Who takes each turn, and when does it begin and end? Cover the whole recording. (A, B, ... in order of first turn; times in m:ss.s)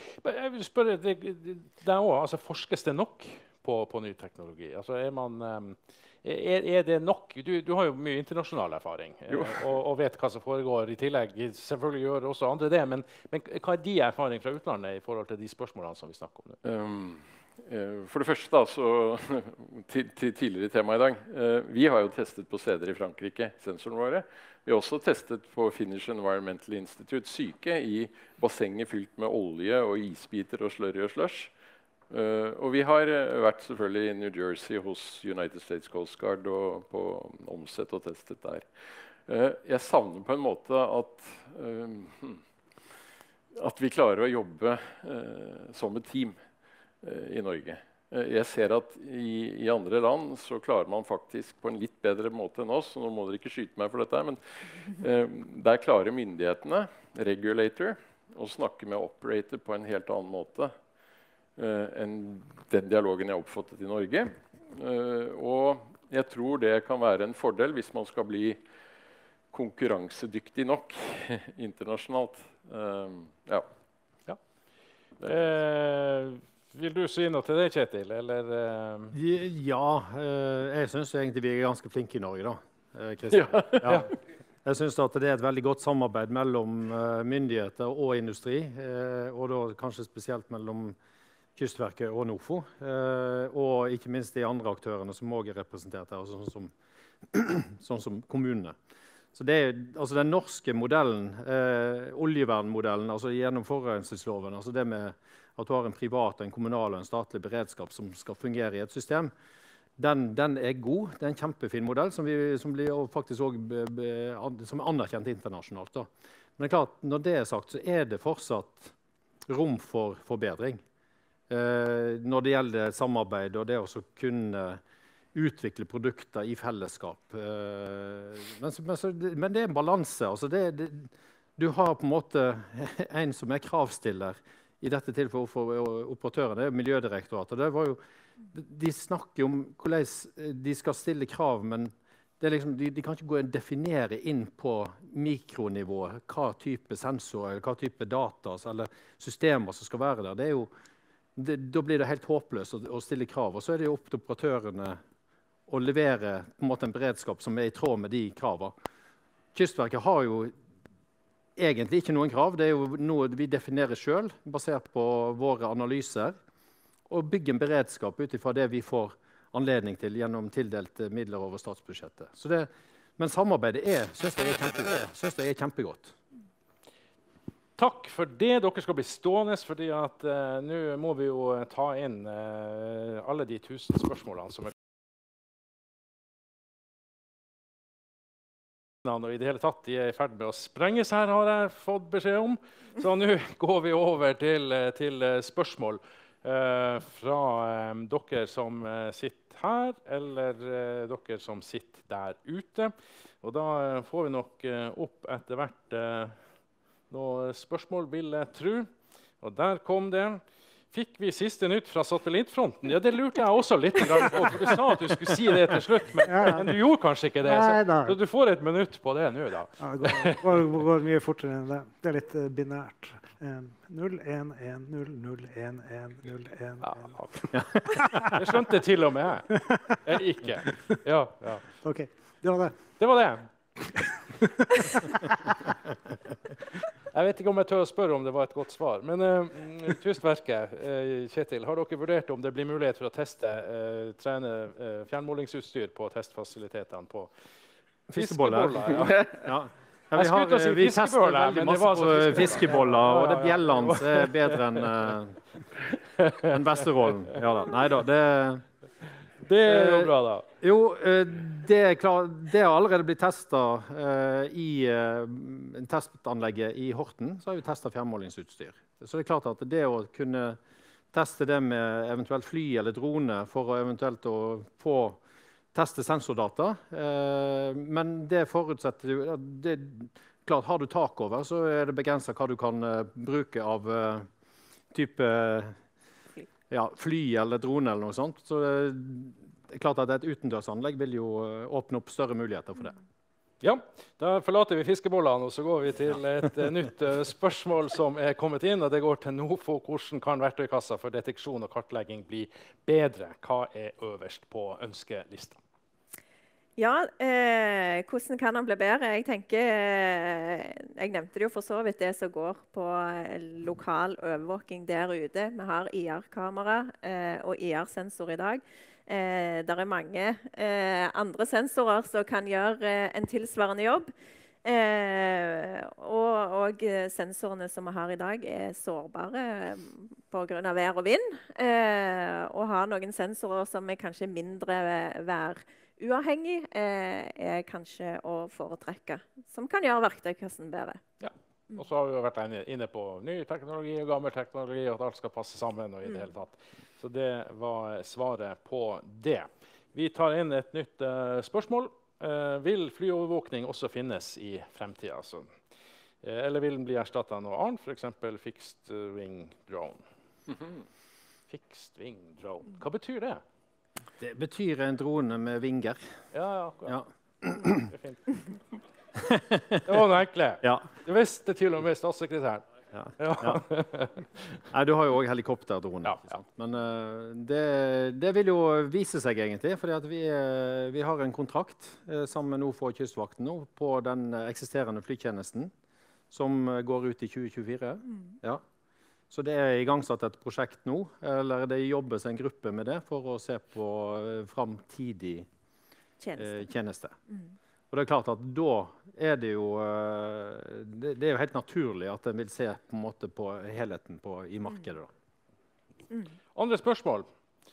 0:00.2-0:16.6 A
0:16.6-0:31.5 B
0:32.1-0:38.7 B
0:39.3-0:42.4 B
0:43.5-0:46.4 B
0:47.0-1:00.7 B
1:01.6-1:08.6 B
1:09.5-1:13.7 B
1:15.2-1:19.2 A
1:19.1-1:24.1 C
1:23.4-1:23.8 B
1:23.8-1:24.1 A
1:24.6-1:31.0 C
1:31.6-1:36.7 C
1:37.2-1:38.8 C
1:39.3-1:49.3 C
1:50.0-1:58.9 C
1:59.5-2:00.8 C
2:01.5-2:04.8 C
2:05.3-2:18.0 C
2:18.5-2:30.7 C
2:31.4-2:35.0 C
2:35.7-2:38.7 C
2:39.5-2:40.5 C
2:41.6-2:46.4 C
2:47.1-2:56.2 C
2:57.8-3:04.7 A
3:09.0-3:26.4 A
3:27.1-3:28.9 A
3:29.4-3:40.6 A
3:36.2-3:36.7 D
3:37.4-3:38.2 D
3:39.8-3:48.4 D
3:46.8-3:51.7 A
3:47.5-3:47.8 C
3:49.5-3:50.0 D
3:51.8-3:52.8 D
3:53.0-3:53.5 A
3:53.8-3:55.7 D
3:57.1-4:07.3 A
4:08.1-4:15.4 C
4:08.1-4:09.3 A
4:10.1-4:14.9 A
4:16.2-4:16.5 A
4:16.2-4:18.6 C
4:19.4-4:20.5 A
4:19.6-4:30.6 C
4:31.1-4:35.2 C
4:35.7-4:44.3 C
4:44.9-4:45.8 C
4:46.7-4:53.0 C
4:53.6-5:05.6 A
5:06.8-5:24.1 E
5:24.6-5:41.0 E
5:41.2-5:55.6 A
5:56.2-6:00.0 A
6:01.5-6:03.4 A
6:04.2-6:06.0 C
6:06.3-6:07.0 A
6:06.8-6:07.9 C
6:07.8-6:08.2 A
6:09.2-6:09.9 C
6:09.8-6:12.6 A
6:12.9-6:13.6 C
6:13.2-6:14.4 A
6:14.7-6:25.7 C
6:16.0-6:16.4 A
6:26.3-6:28.6 C
6:28.1-6:28.4 E
6:29.3-6:35.5 C
6:36.2-6:36.6 E
6:36.4-6:37.1 C
6:37.3-6:37.5 E
6:37.9-6:45.1 C
6:46.1-6:46.4 E
6:46.5-6:47.3 A